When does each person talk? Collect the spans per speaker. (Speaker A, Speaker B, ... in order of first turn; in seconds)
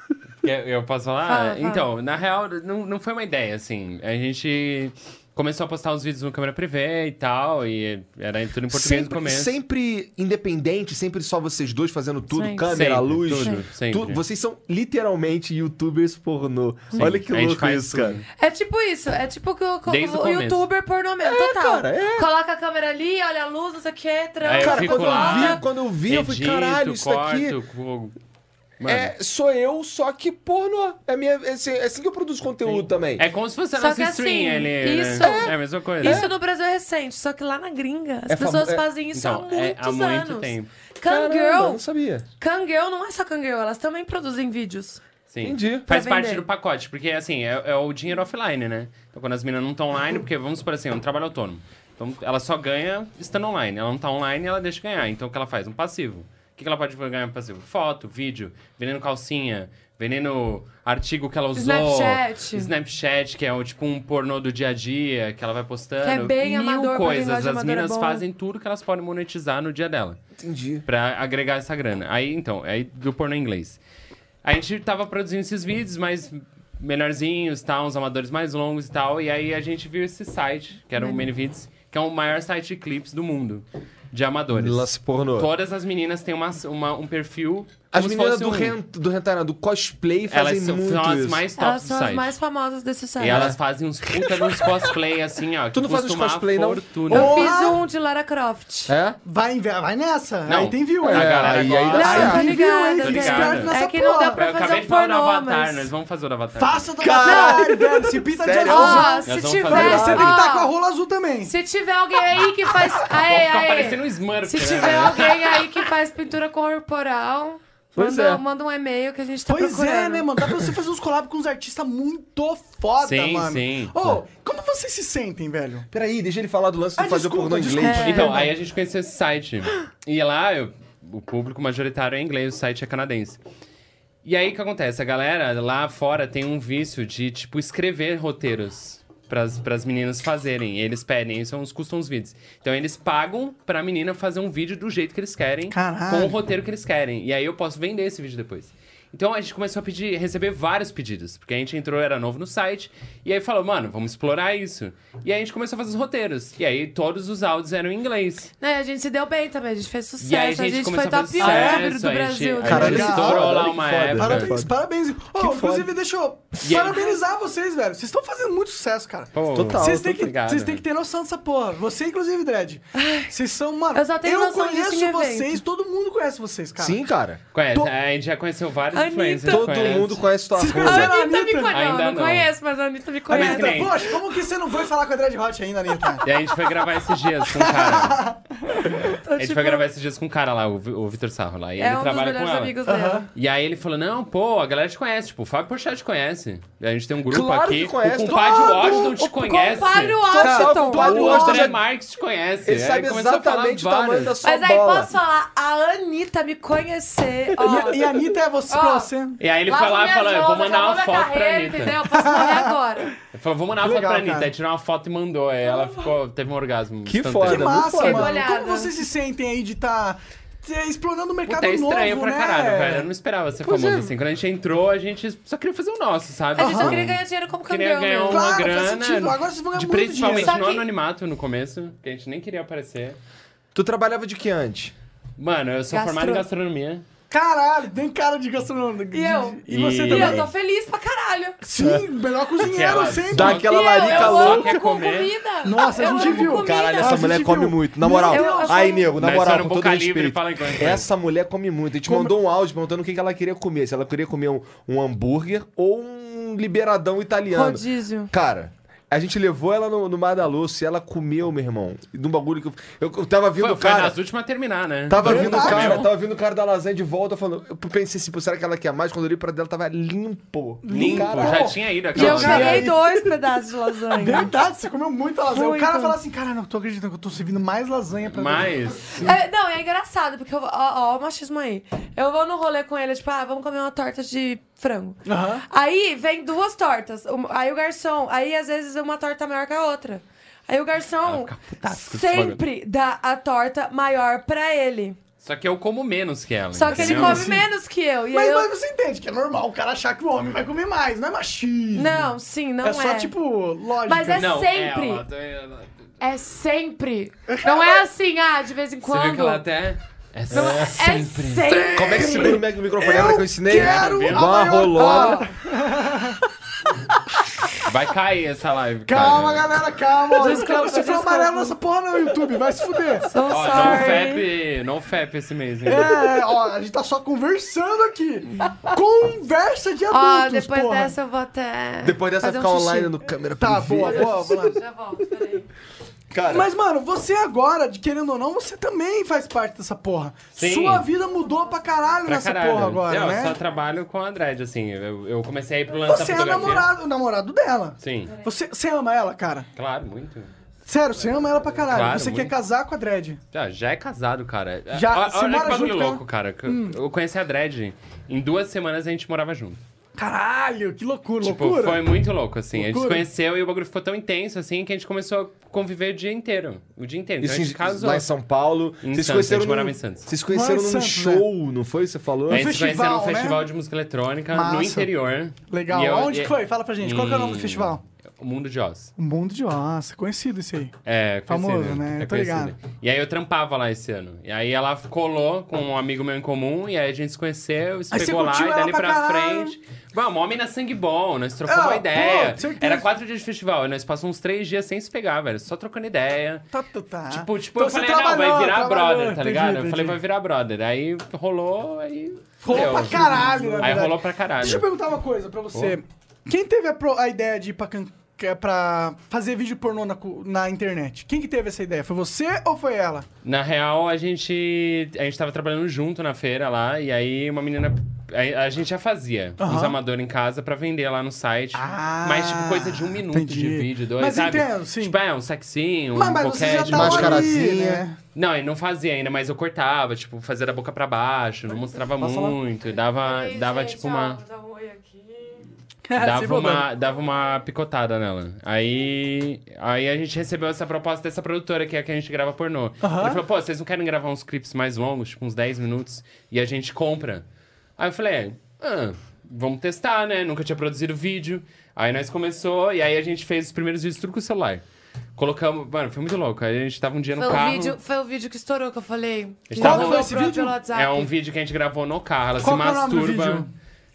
Speaker A: 0.4-9.5, 12.7-14.2, 16.9-18.2, 19.9-20.6, 24.4-28.1, 28.8-29.1, 32.6-36.3, 39.1-40.7, 45.3-70.2, 70.8-73.8, 74.4-88.8, 90.3-92.3, 93.2-97.5, 100.5-102.5, 103.0-103.7, 104.3-106.9, 109.2-110.3, 113.2-115.7, 123.0-124.2, 128.0-133.4, 134.2-158.5, 160.2-164.5, 166.6-167.1, 169.3-170.8, 177.5-180.2, 181.7-182.5, 183.3-184.1, 186.2-188.2, 189.4-192.8, 193.3-204.3, 209.4-212.0, 213.3-217.8, 221.4-233.2, 235.4-237.0, 239.7-240.5, 242.6-245.3, 249.2-251.1, 263.6-266.1, 270.9-272.9, 278.3-279.2, 291.2-292.6, 295.4-297.5, 304.3-305.9, 309.0-311.9, 313.7-314.7, 317.8-319.8, 323.5-326.2, 340.6-341.1, 342.2-346.9, 348.0-348.3, 349.8-350.5, 351.8-352.6, 353.5-359.8, 361.4-368.3, 369.0-370.3, 372.5-379.1, 381.0-396.7, 397.3-404.9, 405.7-406.0, 413.4-427.5, 428.3-434.4, 436.2-447.4, 448.0-454.8, 455.4-458.0, 459.7-463.7
Speaker B: 1.3-1.9, 12.3-12.8, 13.4-13.6, 18.4-25.6, 33.8-41.8, 42.4-45.0, 45.9-46.4, 61.5-62.7, 66.0-68.2, 81.0-81.3, 91.6-93.5, 97.1-98.9, 101.9-105.9, 107.2-107.5, 108.6-110.7, 111.4-120.3, 127.8-128.5, 158.6-163.1, 172.9-173.3, 173.9-175.6, 178.9-180.1, 180.7-184.0, 189.0-189.8, 191.8-193.3, 198.4-201.6, 204.4-208.0, 208.7-209.1, 209.7-213.1, 215.7-216.1, 218.0-218.9, 226.6-228.5, 230.3-230.9, 235.9-236.4, 239.1-241.6, 243.6-247.3, 248.2-249.1, 257.5-258.3, 272.1-274.5, 275.5-276.2, 279.2-295.2, 296.7-298.7, 301.9-303.3, 304.0-305.2, 306.2-309.6, 310.5-312.6, 314.9-315.5, 320.4-321.8, 323.2-324.4, 330.1-333.2, 334.0-335.6, 433.2-435.7, 457.4-461.3
Speaker C: 8.7-18.2, 21.2-22.3, 24.6-27.6, 28.8-33.2, 35.2-36.3, 38.3-38.9, 41.0-42.2, 45.4-45.9, 70.4-70.8, 84.5-85.5, 87.9-91.4, 93.2-93.6, 94.2-94.5, 95.7-97.3, 98.9-99.2, 101.0-102.5, 107.0-109.2, 109.8-110.3, 117.9-118.4, 125.9-128.2, 162.6-164.7, 165.3-165.9, 169.5-170.3, 176.8-177.4, 179.5-181.2, 197.3-199.2, 200.2-201.8, 202.6-205.1, 207.7-208.0, 217.1-218.4, 223.6-224.1, 233.7-234.9, 241.8-242.1, 243.3-244.8, 246.3-264.2, 265.1-271.8, 272.3-272.9, 310.5-311.0, 311.9-315.5, 332.0-334.5, 336.3-336.7, 367.4-372.7, 403.2-403.8, 426.9-428.0
Speaker D: 97.1-97.8, 99.2-104.4, 106.5-111.5, 119.5-125.9, 127.0-128.5, 145.7-146.3, 161.4-161.9, 162.8-163.5, 164.2-177.0, 180.6-181.7, 183.3-186.2, 187.6-189.1, 192.8-193.3, 200.4-200.7, 207.6-209.4, 212.1-212.7, 213.8-214.5, 217.4-223.1, 226.6-227.0, 228.3-230.5, 237.3-240.4, 241.6-243.7, 245.6-249.1, 252.1-252.3, 265.2-266.0, 270.8-272.9, 274.1-279.4, 285.2-285.6, 296.9-297.7, 298.3-302.3, 302.8-304.5, 307.5-308.0, 311.7-316.4, 319.1-324.3, 325.8-331.1, 333.6-334.8, 336.5-343.6, 346.0-349.6, 350.9-353.4, 354.9-357.0, 360.2-362.0, 362.7-363.2, 370.5-371.4, 372.5-373.6, 374.5-375.1, 375.7-378.0, 379.2-380.9, 381.5-382.7, 388.1-389.8, 391.6-393.1, 396.7-400.2, 402.6-413.3, 419.6-420.0, 421.7-425.1, 426.1-428.2, 432.2-432.6, 436.1-436.9, 443.0-443.4, 459.8-460.8, 462.6-463.7